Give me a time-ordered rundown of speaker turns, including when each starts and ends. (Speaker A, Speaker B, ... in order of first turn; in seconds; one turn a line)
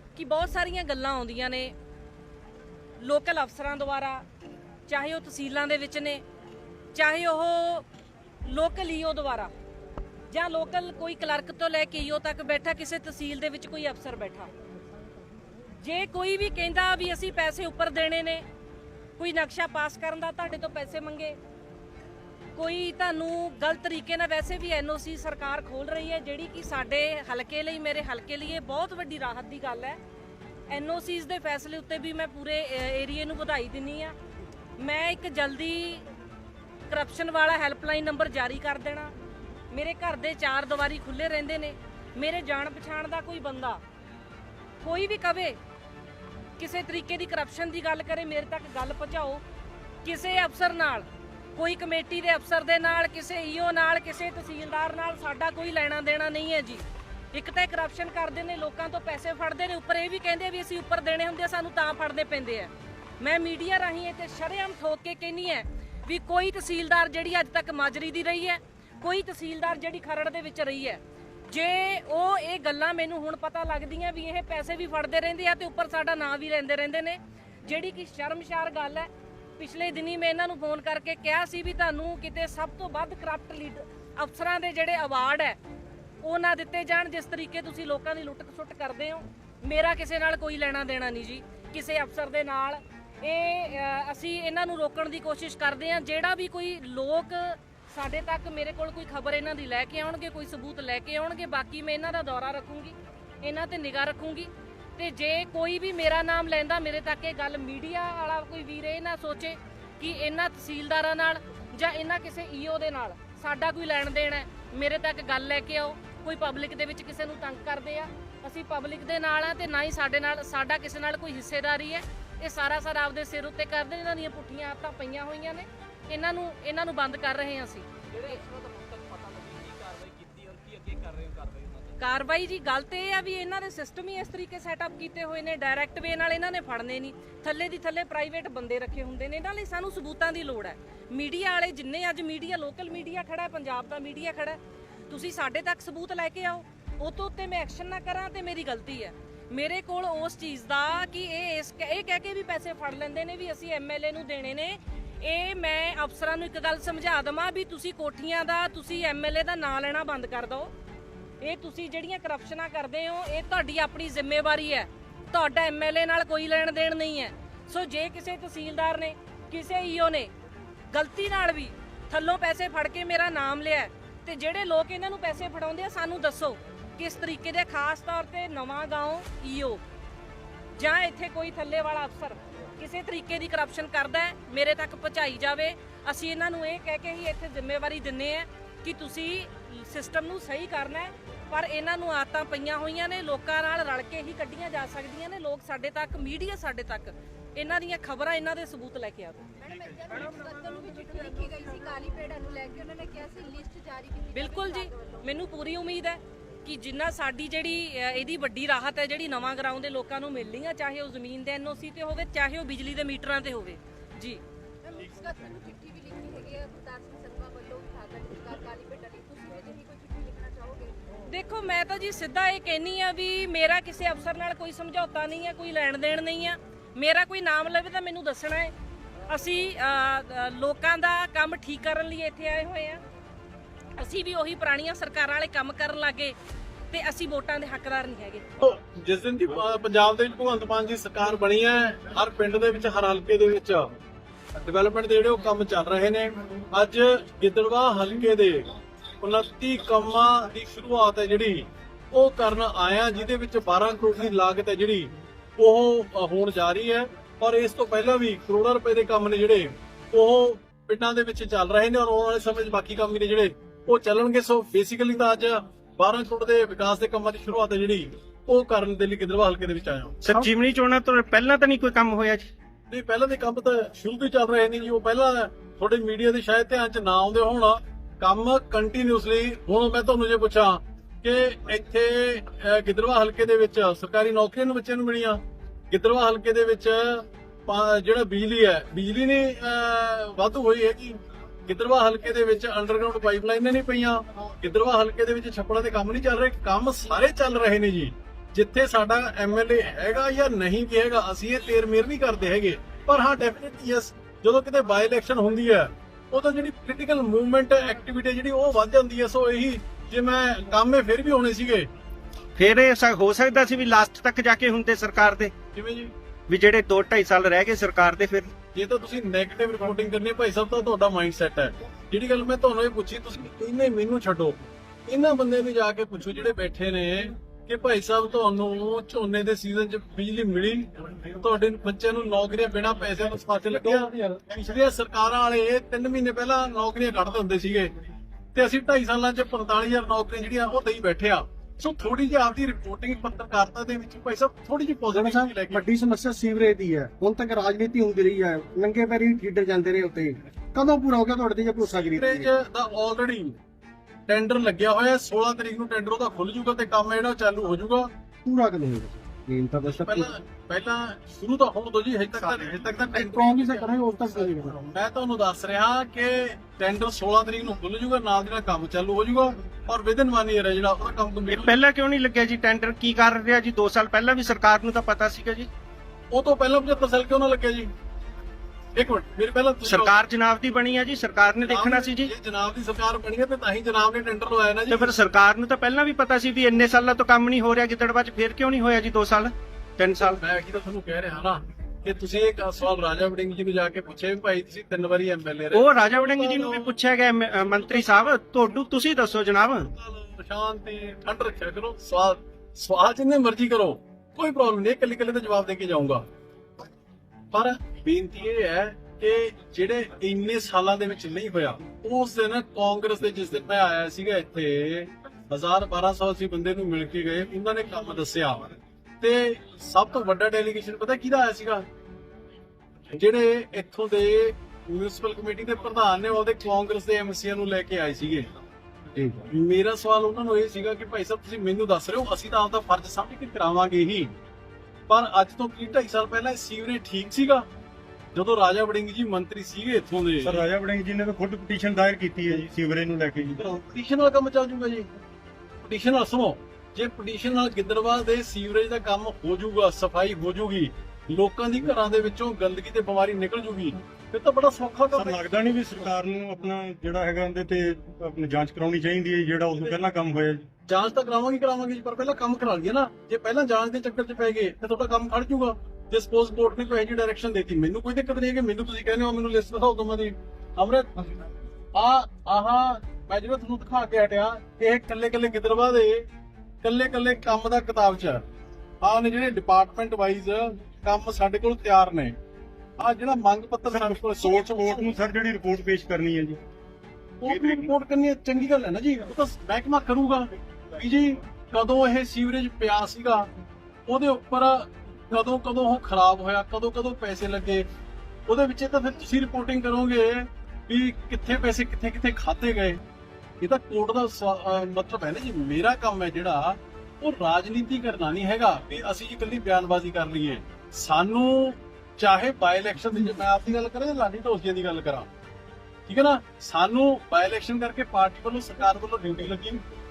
Speaker A: 0.2-1.7
Speaker A: 3.0-4.2
Speaker A: 4.9-6.2
Speaker A: 7.0-7.8
Speaker A: 8.5-9.5
Speaker A: 10.3-14.5
Speaker A: 15.8-18.4
Speaker A: 19.2-21.4
Speaker A: 22.6-30.0
Speaker A: 30.7-34.1
Speaker A: 34.8-36.0
Speaker A: 36.9-39.1
Speaker A: 39.7-43.8
Speaker A: 44.8-45.6
Speaker A: 46.6-49.4
Speaker A: 50.0-85.6
Speaker A: 86.2-128.4
Speaker A: 132.0-144.6
Speaker A: 145.1-160.7
Speaker A: 161.4-170.3
Speaker A: 170.9-179.8
Speaker A: 180.8-199.6
Speaker B: 199.6-205.3
Speaker A: 204.3-214.4
Speaker B: 214.8-221.0
Speaker A: 221.3-228.7
Speaker A: 229.3-233.0
Speaker A: 234.0-236.4
Speaker A: 236.9-238.4
Speaker C: 238.6-243.9
Speaker C: 244.6-248.7
Speaker C: 249.2-270.4
Speaker D: 270.2-272.5
Speaker C: 272.9-311.9
Speaker D: 312.6-315.5
Speaker C: 315.7-316.1
Speaker D: 316.5-318.5
Speaker C: 318.7-337.9
Speaker C: 338.5-345.9
Speaker E: 345.1-352.5
Speaker C: 351.9-353.6
Speaker C: 354.3-358.1
Speaker E: 358.4-360.3
Speaker C: 359.8-371.7
Speaker E: 363.1-364.8
Speaker D: 371.5-375.7
Speaker C: 376.3-377.9
Speaker C: 378.9-380.2
Speaker D: 379.9-382.3
Speaker C: 381.6-385.1
Speaker D: 384.9-390.4
Speaker C: 390.2-397.0
Speaker D: 395.7-399.9
Speaker C: 397.8-398.3
Speaker C: 399.9-406.2
Speaker C: 407.5-418.6
Speaker C: 419.2-421.9
Speaker C: 423.1-428.5
Speaker E: 429.2-429.5
Speaker C: 429.5-434.3
Speaker C: 435.1-437.7
Speaker C: 438.3-440.7
Speaker F: 440.4-443.8
Speaker C: 443.9-445.1
Speaker C: 445.8-455.5
Speaker F: 455.1-460.7
Speaker C: 460.9-471.1
Speaker C: 471.9-476.3
Speaker C: 476.8-478.4
Speaker C: 479.0-482.4
Speaker C: 483.0-485.1
Speaker F: 483.9-486.6
Speaker C: 487.4-493.5
Speaker F: 487.5-487.9
Speaker C: 494.1-497.9
Speaker C: 498.5-503.0
Speaker C: 503.6-515.3
Speaker C: 516.1-519.9